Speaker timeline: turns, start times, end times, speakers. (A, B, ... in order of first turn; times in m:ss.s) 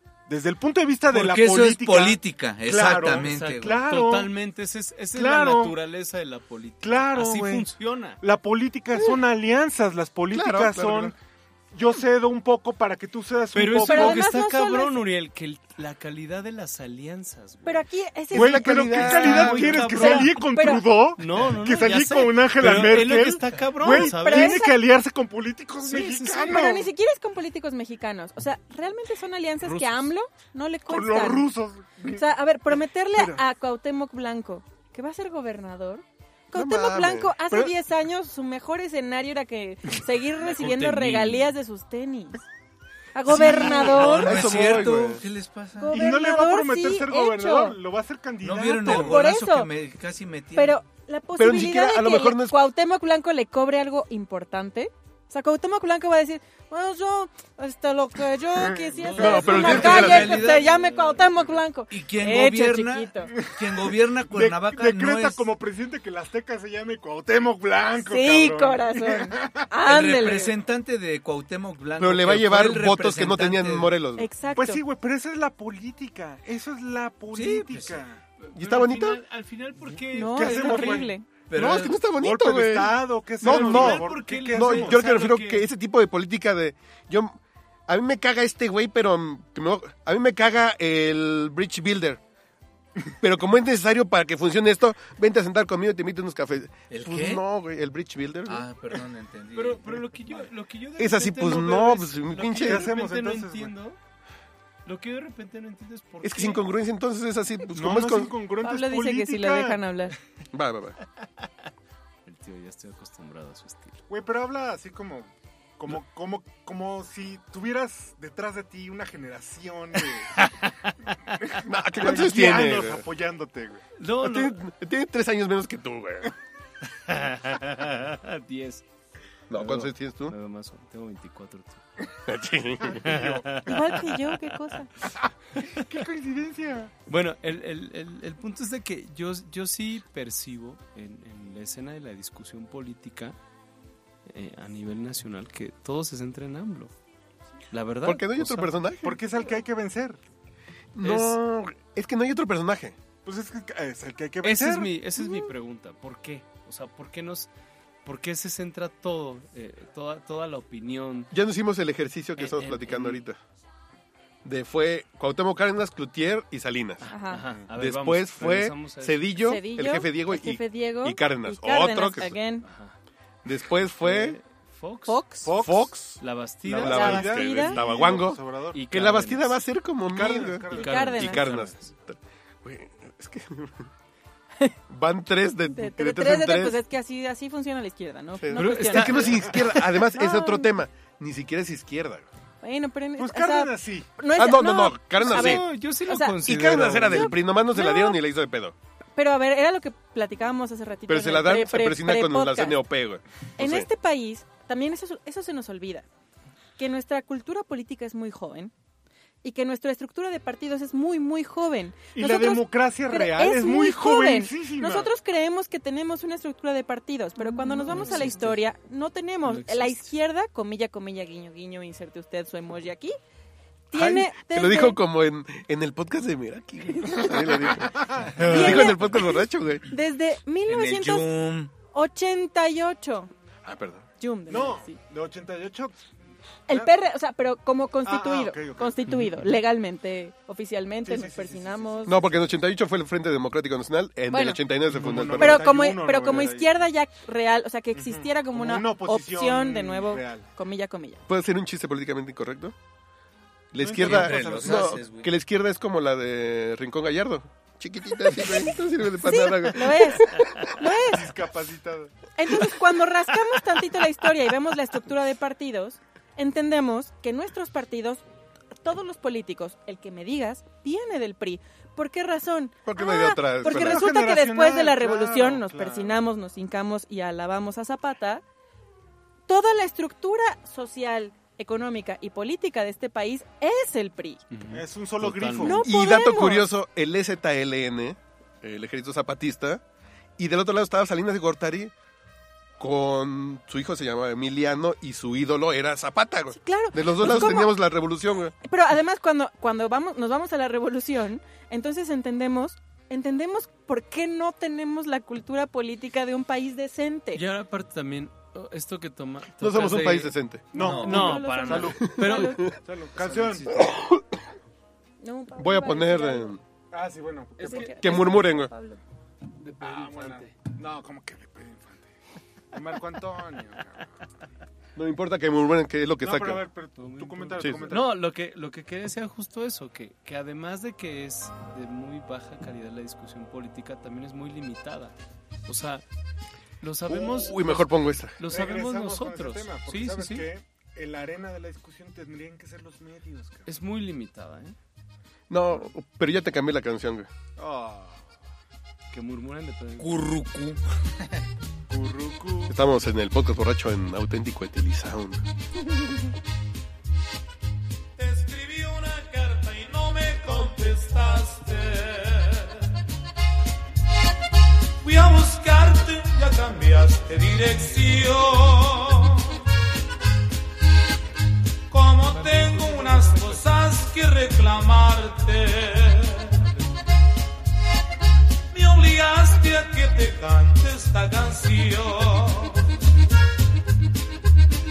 0:00.3-0:04.3 A
0:01.1-0:03.8 B
0:03.0-0:08.2 C
0:05.1-0:05.8 A
0:06.8-0:11.2 A
0:10.3-0:11.1 D
0:11.7-0:14.2 A
0:13.5-0:17.9 C
0:13.8-0:15.1 E
0:17.6-0:20.9 E
0:18.3-0:19.8 D
0:18.3-0:26.9 A
0:18.9-0:20.5 C
0:21.2-0:24.6 C
0:23.8-0:24.8 E
0:25.8-0:26.7 C
0:26.4-0:31.5 E
0:29.6-0:30.1 C
0:30.8-0:32.2 A
0:32.1-0:42.4 E
0:33.1-0:33.4 A
0:36.5-0:37.3 D
0:40.4-0:41.5 C
0:43.1-0:44.6 E
0:43.3-0:46.0 B
0:43.3-0:44.0 A
0:44.0-0:45.2 D
0:44.5-0:44.8 A
0:45.8-0:47.8 E
0:45.9-0:49.2 A
0:48.4-0:50.8 B
0:48.8-0:49.7 E
0:50.6-1:03.3 E
0:51.4-0:52.6 D
0:58.9-1:01.6 C
0:59.0-1:00.7 B
0:59.2-1:00.4 D
1:01.9-1:05.4 B
1:03.4-1:09.7 A
1:08.0-1:10.6 E
1:09.8-1:13.9 B
1:12.0-1:14.3 D
1:14.2-1:14.8 E
1:14.5-1:18.2 A
1:17.3-1:21.1 C
1:18.5-1:19.2 D
1:20.1-1:21.3 E
1:20.2-1:21.1 A
1:21.5-1:22.0 B
1:21.5-1:32.2 D
1:22.1-1:25.2 A
1:23.4-1:25.7 C
1:33.2-1:38.7 D
1:36.9-1:37.4 B
1:38.4-1:40.4 B
1:39.5-1:44.0 C
1:41.0-1:42.9 D
1:42.6-1:43.7 A
1:44.8-1:46.6 C
1:46.2-1:48.3 D
1:47.7-1:49.8 A
1:48.6-1:50.1 E
1:50.5-1:51.0 D
1:52.2-1:54.0 C
1:54.1-2:00.4 A
2:00.3-2:01.6 C
2:01.5-2:03.8 A
2:01.6-2:03.0 D
2:04.0-2:04.6 C
2:04.2-2:06.3 D
2:06.9-2:08.8 C
2:09.5-2:10.3 D
2:09.5-2:11.8 C
2:12.2-2:13.0 D
2:12.9-2:13.6 A
2:13.0-2:14.5 C
2:13.6-2:14.9 E
2:15.6-2:16.9 A
2:17.1-2:23.4 C
2:24.2-2:26.9 C
2:27.7-2:28.8 C
2:28.0-2:29.2 D
2:29.0-2:30.2 A
2:30.9-2:33.0 D
2:31.0-2:31.3 C
2:33.2-2:34.9 A
2:34.4-2:37.5 C
2:38.0-2:41.3 C
2:41.3-2:43.4 D
2:42.4-2:43.2 C
2:44.4-2:47.0 D
2:47.0-2:49.3 C
2:47.1-2:47.4 E
2:47.7-2:52.4 D
2:49.4-2:52.7 E
2:52.6-2:53.0 C
2:53.4-2:54.4 D
2:54.0-2:55.5 C
2:55.1-2:55.5 E
2:55.4-2:56.0 A
2:55.6-2:56.2 D
2:56.2-2:57.3 C
2:56.6-2:58.8 A
2:56.7-3:03.9 D
2:56.8-2:57.8 E
2:58.7-2:59.6 C
3:00.1-3:01.1 A
3:00.7-3:01.9 C
3:00.8-3:01.5 E
3:04.9-3:06.8 D
3:05.7-3:10.7 E
3:08.4-3:12.3 D
3:08.5-3:09.7 C
3:12.6-3:16.4 E
3:13.2-3:14.1 A
3:14.3-3:15.6 D
3:15.2-3:17.4 C
3:16.4-3:18.7 D
3:17.0-3:18.2 E
3:19.2-3:22.8 E
3:21.1-3:23.9 D
3:23.6-3:26.0 E
3:26.8-3:28.7 E
3:29.4-3:43.2 E
3:32.1-3:35.1 A
3:37.4-3:38.6 C
3:39.4-3:40.1 C
3:43.9-3:45.0 E
3:43.9-3:49.8 D
3:47.8-3:48.8 A
3:48.4-3:51.3 E
3:50.7-3:51.7 B
3:51.9-3:53.3 E
3:53.6-3:54.0 D
3:54.2-3:55.0 E
3:54.5-3:56.0 A
3:56.7-4:02.2 E
3:56.7-3:56.9 A
3:58.0-3:59.0 A
4:01.0-4:02.3 A
4:02.0-4:05.7 D
4:04.3-4:04.6 E
4:04.9-4:06.7 A
4:05.4-4:11.2 E
4:07.9-4:10.5 A
4:11.3-4:12.7 D
4:13.7-4:20.8 D
4:13.8-4:15.0 A
4:14.0-4:15.3 B
4:19.2-4:21.3 E
4:21.0-4:22.2 A
4:22.4-4:28.2 E
4:28.8-4:38.4 E
4:32.8-4:34.1 D
4:33.6-4:36.2 A
4:39.5-4:44.4 E
4:44.5-4:45.8 C
4:44.7-4:45.8 A
4:45.6-4:46.7 E
4:45.8-4:49.8 D
4:50.4-4:51.9 D
4:52.8-4:58.5 D
4:56.5-4:57.7 E
4:58.6-5:07.4 E
5:07.3-5:13.9 C
5:09.6-5:10.6 D
5:10.7-5:11.4 B
5:10.7-5:13.8 A
5:10.8-5:12.8 E
5:12.0-5:12.7 D
5:13.7-5:14.2 D
5:15.2-5:16.6 E
5:15.6-5:16.6 D
5:16.9-5:18.1 A
5:17.6-5:18.4 C
5:17.6-5:19.0 E
5:18.0-5:18.7 D
5:19.6-5:20.5 C
5:19.8-5:22.0 A
5:22.7-5:24.1 A
5:25.0-5:26.6 D
5:26.2-5:28.2 A
5:27.0-5:35.1 C
5:27.6-5:27.9 D
5:35.7-5:36.0 C
5:36.8-5:40.5 C
5:37.1-5:38.4 D
5:38.4-5:43.7 A
5:43.6-5:44.8 C
5:45.5-5:47.3 D
5:47.6-5:48.2 A
5:49.1-5:50.3 C
5:50.0-5:51.4 B
5:51.9-5:52.8 A
5:52.7-5:55.4 D
5:58.2-6:02.9 F
6:05.0-6:09.6 F
6:11.9-6:16.6 F
6:12.3-6:13.6 C
6:18.7-6:22.9 F